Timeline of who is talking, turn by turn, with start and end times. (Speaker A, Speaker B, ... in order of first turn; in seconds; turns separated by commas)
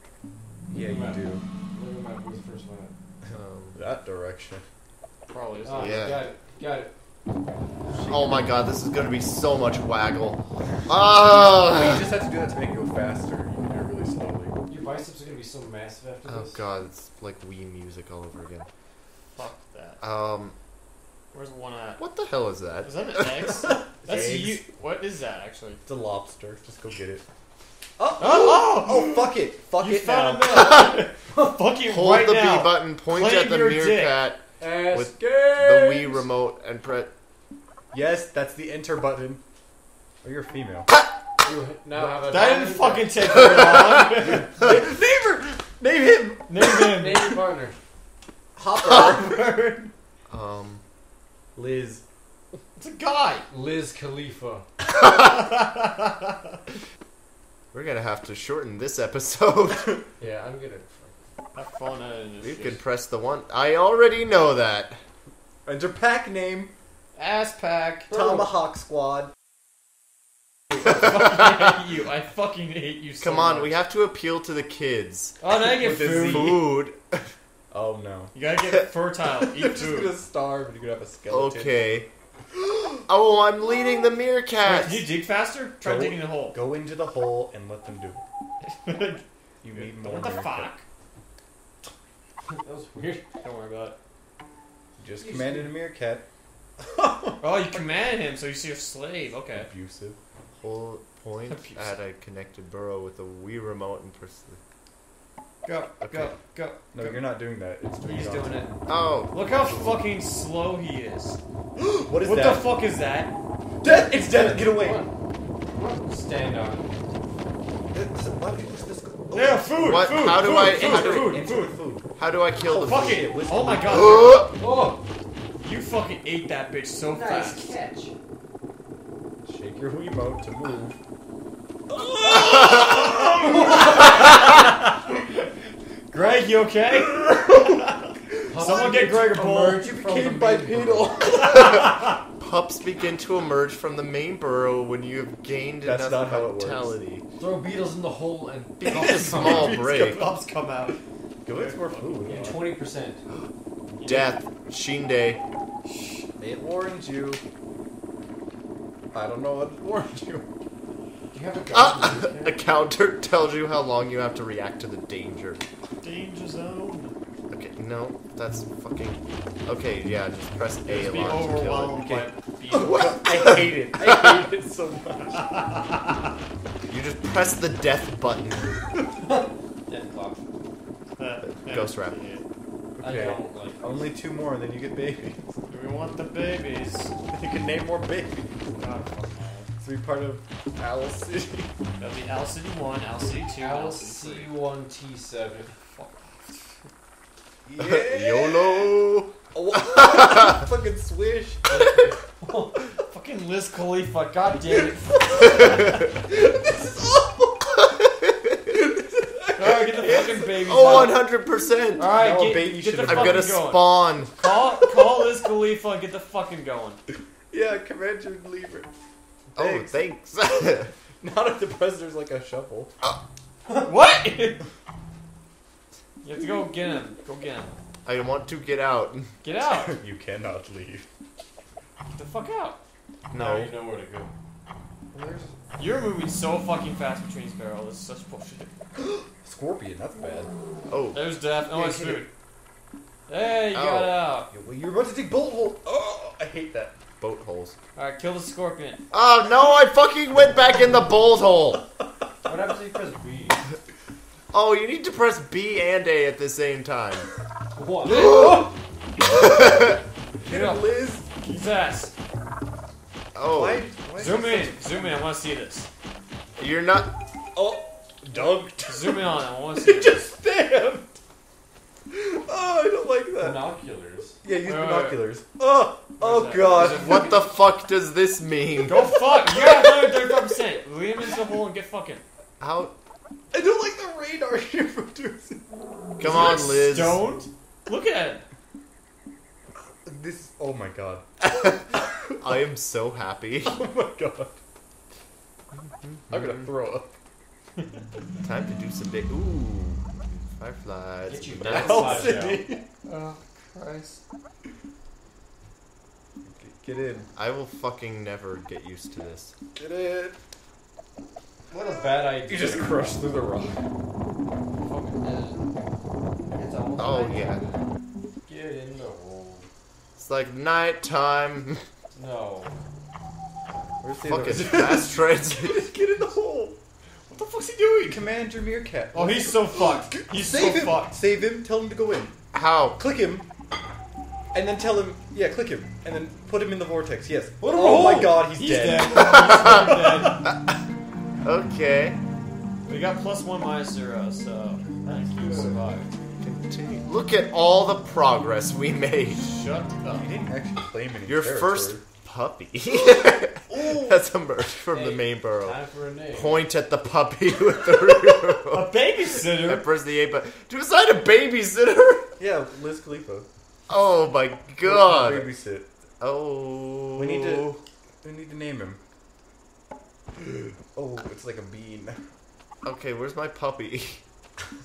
Speaker A: 0.7-1.4, Speaker B: 0.7-2.9, Speaker A: 3.3-4.6, Speaker C: 3.3-3.8, Speaker D: 5.3-6.2, Speaker B: 5.6-6.9, Speaker C: 5.7-6.2, Speaker A: 7.9-8.5, Speaker C: 8.1-12.0, Speaker A: 11.5-14.6, Speaker B: 14.7-16.6, Speaker C: 16.3-18.7, Speaker D: 19.4-20.0, Speaker C: 20.0-20.6, Speaker D: 21.3-22.0, Speaker C: 22.0-23.8, Speaker D: 22.8-25.8, Speaker A: 24.0-24.6, Speaker A: 25.9-27.2, Speaker A: 28.0-30.7, Speaker D: 28.2-34.2, Speaker C: 30.5-31.1, Speaker C: 31.9-37.1, Speaker B: 34.6-36.3, Speaker A: 37.9-39.4, Speaker A: 40.2-40.9, Speaker B: 41.4-43.2, Speaker D: 42.2-44.6, Speaker C: 43.3-44.7, Speaker A: 44.2-46.9, Speaker D: 46.5-47.4, Speaker B: 47.0-47.8, Speaker A: 48.6-49.5, Speaker D: 48.7-49.9, Speaker C: 50.3-50.8, Speaker A: 51.6-52.0, Speaker D: 52.8-53.5, Speaker B: 53.5-54.7, Speaker D: 55.0-56.6, Speaker C: 57.7-60.0, Speaker B: 60.2-61.2, Speaker D: 61.5-62.8, Speaker C: 62.4-65.0, Speaker A: 65.7-66.7, Speaker D: 67.2-68.5, Speaker A: 68.1-69.3, Speaker D: 70.7-73.8, Speaker C: 73.2-75.4, Speaker D: 75.4-76.7, Speaker A: 75.6-76.7, Speaker C: 76.2-77.3, Speaker A: 77.7-78.3, Speaker D: 78.3-80.2, Speaker A: 79.5-82.0, Speaker C: 81.3-82.1, Speaker A: 82.6-83.0, Speaker C: 83.1-85.1, Speaker D: 84.6-86.6, Speaker A: 85.8-88.2, Speaker D: 88.6-90.8, Speaker A: 89.6-90.7, Speaker B: 92.5-93.2, Speaker D: 93.4-94.0, Speaker A: 95.0-96.3, Speaker B: 95.2-95.8, Speaker A: 96.8-97.6, Speaker D: 97.4-99.7, Speaker A: 99.5-100.2, Speaker C: 100.6-104.6, Speaker D: 101.5-102.0, Speaker D: 105.7-107.3, Speaker C: 106.0-106.4, Speaker A: 106.9-108.7, Speaker D: 108.0-108.7, Speaker C: 108.9-109.3, Speaker D: 109.3-111.4, Speaker A: 109.6-109.9, Speaker A: 111.8-112.7, Speaker D: 112.2-113.4, Speaker A: 113.8-115.0, Speaker B: 113.9-115.1, Speaker B: 115.7-116.9, Speaker A: 117.9-119.8, Speaker D: 119.3-121.7, Speaker C: 119.8-121.4, Speaker A: 120.5-122.1, Speaker C: 122.2-123.2, Speaker A: 122.6-124.3, Speaker D: 122.8-124.5, Speaker C: 123.9-124.5, Speaker B: 124.6-125.0, Speaker D: 125.6-127.7, Speaker B: 127.1-128.1, Speaker A: 129.4-131.0, Speaker A: 131.9-134.0, Speaker C: 132.3-133.4, Speaker D: 132.6-135.2, Speaker B: 133.4-134.0, Speaker D: 136.1-139.8, Speaker A: 137.1-137.8, Speaker A: 138.3-139.2, Speaker B: 138.5-141.1, Speaker A: 139.7-141.9, Speaker C: 141.3-147.2, Speaker D: 141.5-141.9, Speaker A: 145.8-146.9, Speaker B: 147.4-149.8, Speaker C: 148.8-150.3, Speaker D: 149.2-152.2, Speaker A: 151.4-152.7, Speaker B: 152.2-153.2, Speaker C: 154.0-155.4, Speaker D: 155.8-156.3, Speaker A: 156.4-157.4, Speaker A: 159.1-160.5, Speaker B: 161.3-162.6, Speaker C: 161.7-165.6, Speaker D: 166.0-167.1, Speaker C: 167.5-171.9, Speaker D: 170.9-173.0, Speaker A: 171.1-175.6, Speaker C: 172.7-174.4, Speaker B: 174.0-174.3, Speaker D: 175.3-176.2, Speaker C: 176.9-178.8, Speaker B: 179.3-180.4, Speaker D: 181.2-182.4, Speaker C: 181.4-182.2, Speaker A: 183.0-185.6, Speaker B: 183.0-184.1, Speaker D: 185.7-187.1, Speaker A: 187.3-188.6, Speaker D: 188.8-189.7, Speaker A: 189.8-191.7, Speaker D: 192.0-194.5, Speaker B: 193.6-195.8, Speaker D: 195.8-196.8, Speaker A: 197.7-198.9, Speaker C: 197.8-200.6, Speaker A: 199.5-202.1, Speaker B: 201.7-202.7, Speaker D: 203.0-205.9, Speaker A: 204.7-207.9, Speaker C: 205.4-206.1, Speaker C: 208.0-208.6, Speaker A: 208.7-210.8, Speaker D: 209.6-211.2, Speaker C: 210.6-212.1, Speaker D: 212.0-217.0, Speaker A: 212.0-213.5, Speaker C: 213.0-214.3, Speaker A: 217.5-218.9, Speaker A: 219.6-220.0, Speaker C: 219.6-220.9, Speaker A: 221.2-222.9, Speaker D: 223.7-224.6, Speaker D: 226.2-227.7, Speaker C: 228.1-229.3, Speaker D: 229.4-229.9, Speaker A: 229.7-231.1, Speaker D: 232.1-232.8, Speaker C: 233.3-233.7, Speaker B: 233.3-234.3, Speaker A: 235.1-235.5, Speaker D: 235.8-238.7, Speaker A: 239.0-240.5, Speaker C: 240.9-241.2, Speaker D: 241.1-242.3, Speaker C: 241.9-242.2, Speaker A: 241.9-242.1, Speaker D: 243.3-244.5, Speaker C: 243.7-244.2, Speaker A: 244.5-247.0, Speaker C: 247.2-247.8, Speaker D: 248.0-249.0, Speaker C: 249.1-251.9, Speaker B: 252.4-253.6, Speaker C: 254.5-257.3, Speaker B: 257.7-258.7, Speaker C: 258.1-258.7, Speaker A: 258.1-258.7, Speaker C: 259.3-260.0, Speaker A: 260.4-261.4, Speaker D: 260.4-262.1, Speaker C: 263.4-263.8, Speaker A: 263.5-265.1, Speaker D: 264.2-265.9, Speaker C: 266.6-267.1, Speaker A: 267.6-271.2, Speaker D: 268.8-270.3, Speaker A: 272.1-273.7, Speaker B: 273.4-274.4, Speaker A: 274.4-277.3, Speaker D: 274.6-275.2, Speaker D: 276.2-277.4, Speaker C: 276.7-279.1, Speaker D: 278.9-282.2, Speaker A: 278.9-280.7, Speaker C: 282.6-283.0, Speaker A: 283.5-285.6, Speaker C: 286.2-287.2, Speaker D: 286.2-288.4, Speaker A: 289.8-292.6, Speaker C: 291.6-293.8, Speaker A: 293.6-294.6, Speaker C: 296.0-296.7, Speaker A: 296.3-297.1, Speaker C: 298.4-302.4, Speaker B: 301.3-302.7, Speaker A: 301.6-302.9, Speaker D: 303.1-304.2, Speaker A: 306.5-307.3, Speaker C: 307.4-309.5, Speaker A: 309.8-310.4, Speaker B: 311.7-313.0, Speaker A: 312.5-313.8, Speaker B: 314.8-315.6, Speaker B: 316.6-317.8, Speaker C: 317.0-317.6, Speaker B: 318.5-319.7, Speaker C: 320.2-321.9, Speaker B: 322.1-322.8, Speaker A: 324.0-326.8, Speaker C: 324.2-325.9, Speaker D: 327.3-328.2, Speaker A: 328.1-332.4, Speaker D: 329.1-331.2, Speaker C: 332.5-333.0, Speaker A: 333.0-333.5, Speaker A: 334.5-340.4, Speaker B: 337.6-340.4, Speaker C: 339.1-340.6, Speaker C: 341.4-342.2, Speaker D: 342.9-346.1, Speaker B: 345.1-345.7, Speaker C: 346.4-349.4, Speaker D: 349.4-350.3, Speaker A: 350.1-352.0, Speaker C: 351.3-355.8, Speaker B: 354.9-356.6, Speaker C: 356.3-362.3, Speaker D: 358.7-359.9, Speaker A: 362.4-363.5, Speaker C: 363.9-365.5, Speaker A: 364.8-365.9, Speaker C: 366.2-367.8, Speaker A: 367.1-369.0, Speaker A: 370.9-372.2, Speaker C: 372.8-374.2